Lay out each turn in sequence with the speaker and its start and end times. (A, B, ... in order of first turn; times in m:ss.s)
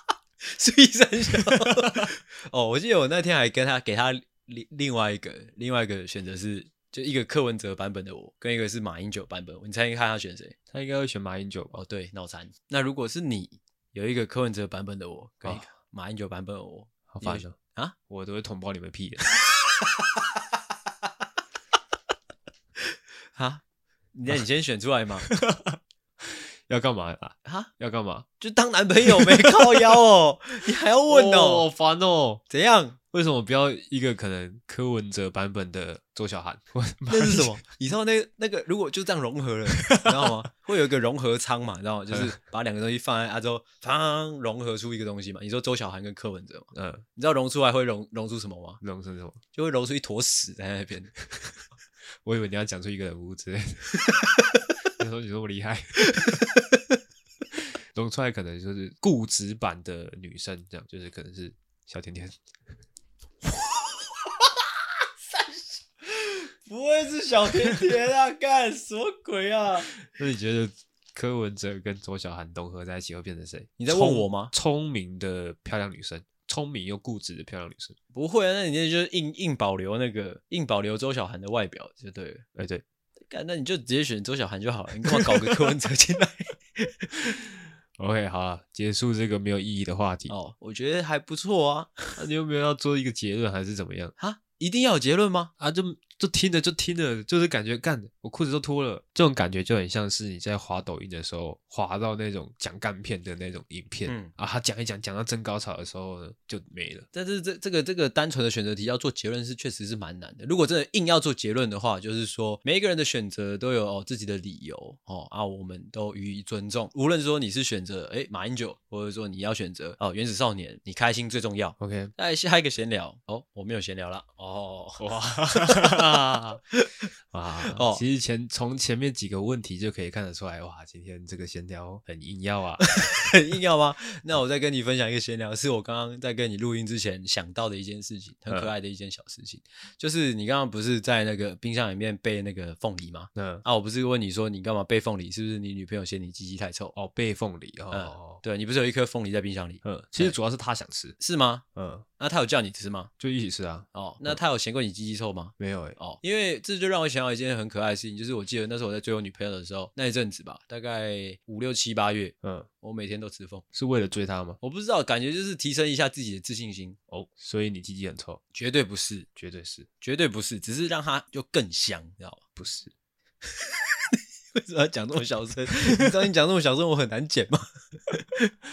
0:00.4-0:10.6 A
0:01.3-0:02.1 B
0:10.7-0:11.8 B
0:11.7-0:18.0 A
0:17.1-0:17.6 B
0:18.1-0:19.2 B
0:23.4-0:23.6 A
0:24.1-0:25.3 A
0:25.3-0:28.3 B
0:27.4-0:27.7 A
0:28.4-0:31.7 A
0:29.0-0:30.0 B
0:31.1-0:32.4 B
0:32.5-0:33.0 A
0:33.1-0:37.5 B
0:37.1-0:48.8 A
0:39.7-0:40.5 B
0:46.7-0:47.0 B
0:48.8-0:49.4 B
0:49.5-0:51.1 A
0:52.2-0:54.0 B
0:55.0-0:56.4 B
0:57.5-1:02.4 B
1:03.4-1:04.5 A
1:05.3-1:09.9 A
1:10.0-1:18.0 B
1:13.8-1:14.5 A
1:18.1-1:22.4 A
1:22.6-1:22.8 B
1:23.3-1:27.4 A
1:25.1-1:25.6 B
1:27.2-1:30.3 B
1:30.3-1:32.2 A
1:32.2-1:34.1 B
1:34.2-1:35.5 A
1:35.6-1:47.1 B
1:44.1-1:44.3 A
1:47.1-2:06.0 A
2:01.8-2:02.1 B
2:05.0-2:06.6 B
2:06.7-2:07.1 A
2:07.3-2:12.9 B
2:07.6-2:08.0 A
2:12.8-2:26.9 A
2:23.4-2:23.6 B
2:27.0-2:28.4 B
2:27.9-2:30.4 A
2:29.8-2:31.2 B
2:31.2-2:31.6 A
2:31.8-2:32.0 B
2:32.2-2:33.1 A
2:33.2-2:34.4 B
2:33.9-2:43.6 A
2:35.6-2:36.0 B
2:42.4-2:42.7 B
2:43.7-2:44.6 B
2:44.6-2:47.0 A
2:47.1-2:48.4 B
2:48.5-2:49.3 A
2:49.4-2:49.9 B
2:50.0-2:52.4 A
2:52.6-2:52.9 B
2:53.5-2:58.5 A
2:55.9-2:56.1 B